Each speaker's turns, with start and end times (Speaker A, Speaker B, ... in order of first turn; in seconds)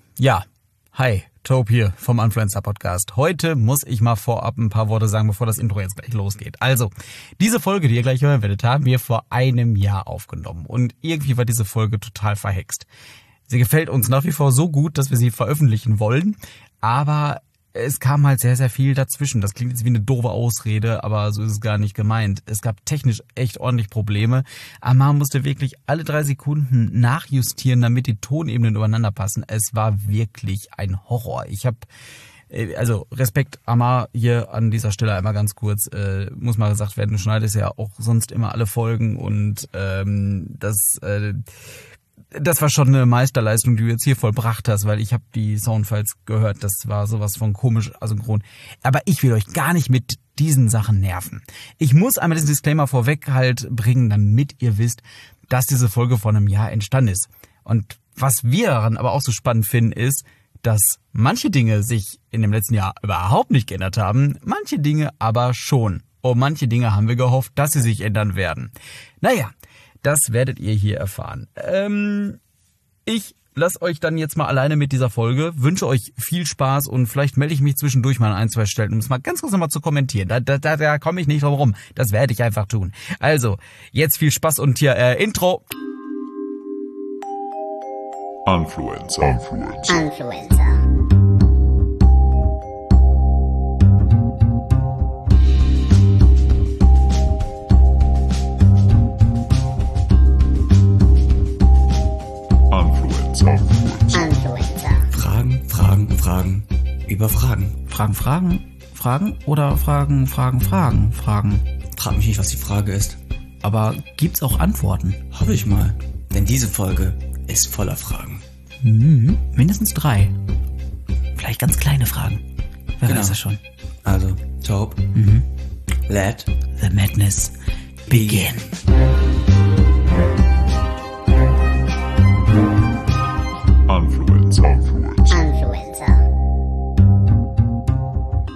Speaker A: 0.2-12.9, 13.5-31.9, 32.5-41.4, 42.3-69.5, 70.0-72.4, 73.0-85.7, 107.9-111.6, 113.6-115.2, 118.8-120.3, 121.3-122.4, 123.0-123.6, 125.1-125.5, 126.8-127.5, 128.1-128.7
Speaker B: 88.5-90.0, 102.7-104.3, 133.9-135.5
Speaker C: 89.9-90.8, 104.1-105.1, 135.3-136.2
Speaker D: 105.1-107.8, 111.9-113.2, 115.3-118.4, 123.0-123.4, 124.0-125.0, 126.1-126.5, 128.1-128.7